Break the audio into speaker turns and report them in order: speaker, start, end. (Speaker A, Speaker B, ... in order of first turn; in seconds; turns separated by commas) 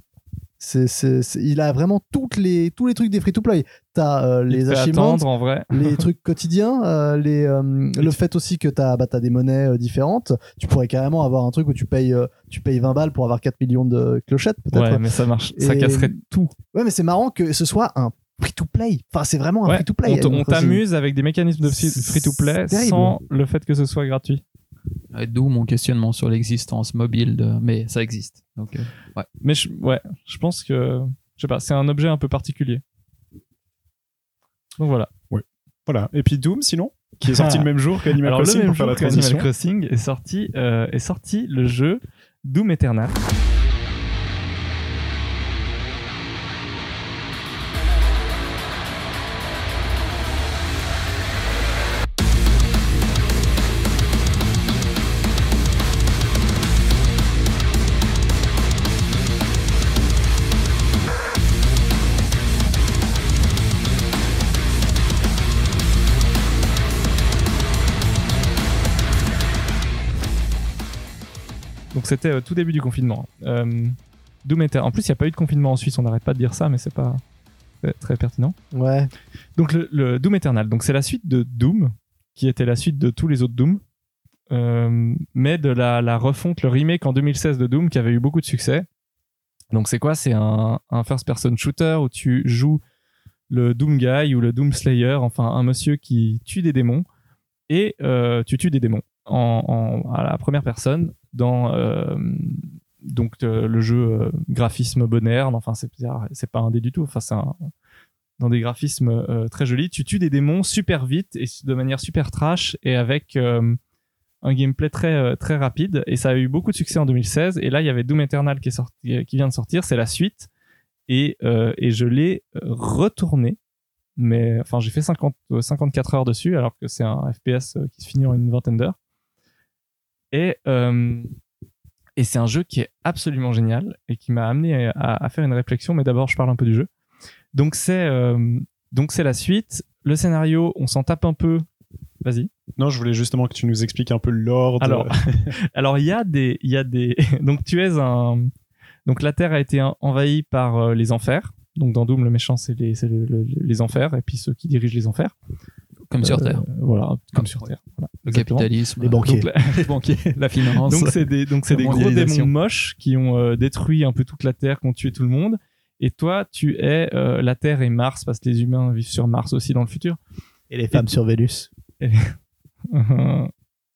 Speaker A: 0.6-15.0, Speaker B: 4.5-6.0, Speaker B: 14.7-16.5, Speaker A: 15.6-16.2, Speaker A: 16.7-20.8, Speaker B: 19.7-24.4, Speaker A: 21.6-23.2, Speaker C: 25.1-29.3, Speaker B: 29.4-32.8, Speaker B: 34.8-35.1, Speaker D: 35.3-39.5, Speaker B: 37.3-43.2, Speaker B: 71.9-77.2, Speaker B: 77.8-78.5, Speaker A: 78.7-79.1, Speaker B: 79.6-83.8, Speaker B: 84.5-88.9, Speaker B: 89.7-92.8, Speaker B: 93.5-97.1, Speaker B: 97.7-107.7, Speaker B: 108.4-113.8, Speaker B: 114.4-120.5, Speaker B: 121.1-123.6, Speaker B: 124.2-129.0, Speaker B: 130.3-131.3, Speaker B: 132.2-136.9, Speaker B: 137.5-141.7, Speaker B: 142.2-142.5, Speaker D: 142.8-145.5, Speaker B: 144.8-148.5, Speaker B: 149.1-155.3, Speaker C: 156.1-156.6, Speaker B: 156.2-158.7, Speaker C: 158.3-162.5, Speaker A: 159.0-159.5, Speaker B: 159.2-159.9, Speaker B: 160.8-170.2, Speaker A: 170.7-171.7, Speaker B: 172.0-172.3, Speaker B: 172.9-173.5